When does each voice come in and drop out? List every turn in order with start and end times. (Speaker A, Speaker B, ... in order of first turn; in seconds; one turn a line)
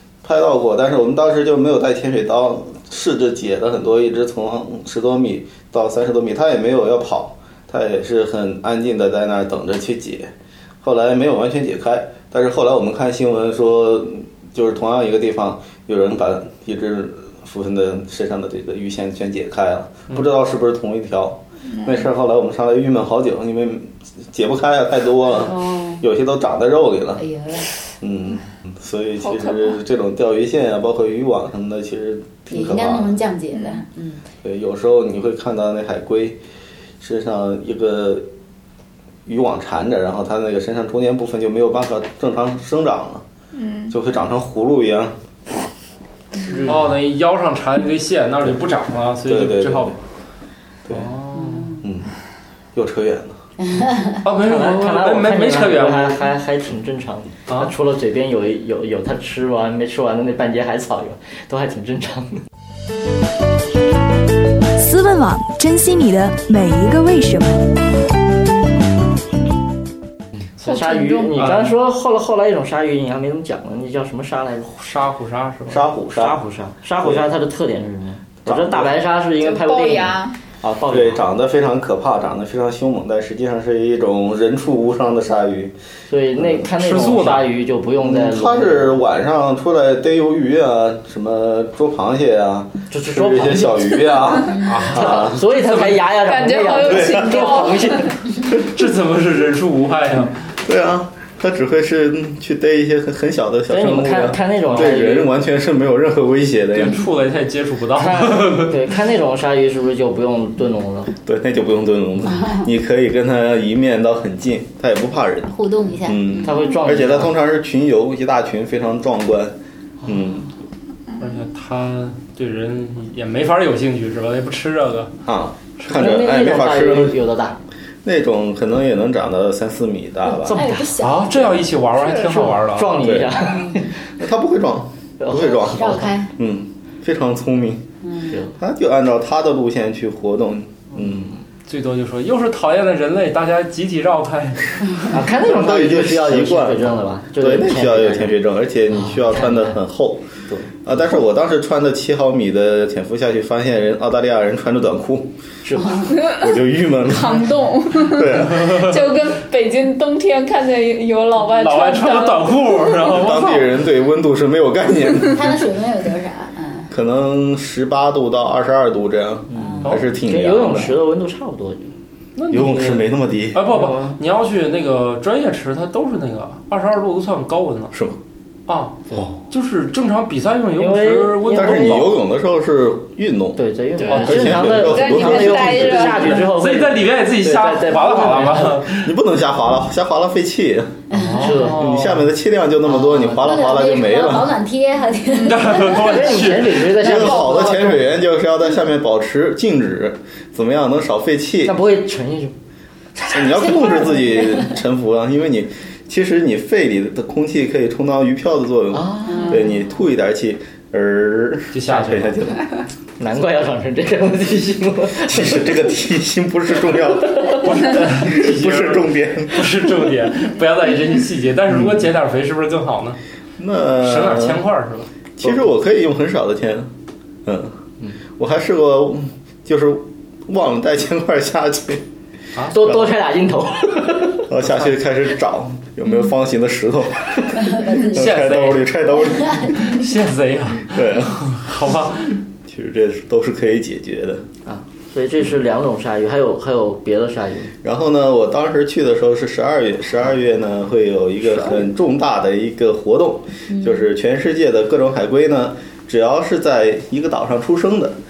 Speaker A: 0.2-27.2
Speaker B: 21.7-22.1
Speaker C: 25.3-26.0
Speaker C: 27.2-27.7
Speaker A: 28.0-33.2
Speaker B: 29.2-29.8
Speaker C: 32.5-34.2
Speaker B: 33.5-33.8
Speaker A: 34.4-36.4
Speaker A: 37.0-38.3
Speaker A: 39.2-43.2
Speaker B: 43.5-43.9
Speaker A: 43.9-45.2
Speaker D: 46.4-46.9
Speaker E: 46.6-50.0
Speaker A: 49.2-50.0
Speaker E: 50.9-51.8
Speaker C: 51.3-51.8
Speaker A: 51.8-52.1
Speaker A: 52.7-53.4
Speaker C: 53.6-54.2
Speaker E: 54.2-56.2
Speaker D: 54.3-62.4
Speaker F: 64.8-67.7
Speaker D: 70.6-74.7
Speaker B: 70.7-71.3
Speaker E: 71.3-71.7
Speaker E: 74.7-75.8
Speaker A: 75.7-76.4
Speaker D: 76.1-81.2
Speaker A: 77.0-77.2
Speaker A: 78.4-78.9
Speaker B: 79.4-80.3
Speaker A: 80.9-85.7
Speaker D: 86.1-89.0
Speaker E: 86.8-87.5
Speaker A: 88.0-95.4
Speaker D: 92.9-94.3
Speaker E: 94.6-96.1
Speaker D: 94.9-98.2
Speaker B: 96.2-98.1
Speaker A: 96.8-97.7
Speaker E: 98.5-100.4
Speaker A: 100.6-107.0
Speaker D: 103.7-105.3
Speaker E: 106.7-108.8
Speaker D: 107.9-111.1
Speaker A: 111.2-120.5
Speaker C: 115.5-116.5
Speaker D: 116.4-117.4
Speaker E: 121.2-125.1
Speaker A: 125.2-127.2
Speaker D: 125.9-127.6
Speaker A: 128.0-130.7
Speaker C: 130.2-131.5
Speaker D: 130.4-130.9
Speaker E: 131.0-133.0
Speaker D: 132.0-134.0
Speaker A: 133.0-133.7
Speaker A: 134.2-137.9
Speaker D: 135.2-136.1
Speaker C: 135.3-136.3
Speaker C: 138.0-138.4
Speaker D: 138.3-138.5
Speaker A: 138.5-141.3
Speaker E: 141.7-145.0
Speaker D: 145.1-149.8
Speaker A: 145.3-150.2
Speaker D: 150.5-150.8
Speaker A: 150.8-155.3
Speaker D: 155.6-156.0
Speaker C: 155.8-156.1
Speaker B: 156.1-156.5
Speaker A: 156.3-159.0
Speaker B: 157.1-163.1
Speaker E: 161.5-163.7
Speaker A: 163.1-165.6
Speaker C: 165.3-166.9
Speaker A: 166.9-170.9
Speaker D: 169.5-171.9
Speaker C: 169.6-169.8
Speaker E: 172.3-177.9
Speaker A: 172.5-173.7
Speaker D: 173.7-174.2
Speaker A: 177.9-178.2
Speaker E: 178.7-182.2
Speaker D: 180.8-182.2
Speaker A: 181.5-186.1
Speaker D: 183.6-188.8
Speaker B: 184.1-186.5
Speaker E: 184.1-184.6
Speaker E: 186.2-189.2
Speaker A: 189.0-191.0
Speaker E: 191.1-192.3
Speaker C: 191.1-191.6
Speaker D: 191.4-191.8
Speaker A: 191.7-194.6
Speaker D: 192.8-193.5
Speaker C: 193.3-196.3
Speaker E: 195.4-196.9
Speaker D: 196.0-198.1
Speaker A: 197.0-201.7
Speaker D: 201.6-202.5
Speaker A: 203.2-212.6
Speaker C: 203.6-204.7
Speaker D: 208.9-209.6
Speaker C: 209.3-209.7
Speaker E: 211.7-212.5
Speaker D: 213.2-215.7
Speaker A: 215.2-219.8
Speaker E: 217.6-223.2
Speaker A: 221.7-222.1
Speaker A: 223.6-224.6
Speaker E: 224.0-225.1
Speaker A: 225.4-226.9
Speaker A: 227.4-227.7
Speaker A: 228.4-232.0
Speaker E: 232.5-232.9
Speaker D: 232.7-234.5
Speaker A: 232.8-233.1
Speaker A: 234.5-239.8
Speaker C: 237.6-238.2
Speaker E: 238.1-238.9
Speaker C: 239.2-239.7
Speaker E: 239.7-242.4
Speaker A: 240.9-241.5
Speaker A: 242.6-244.4
Speaker D: 244.7-247.7
Speaker A: 247.8-258.2
Speaker C: 253.7-254.1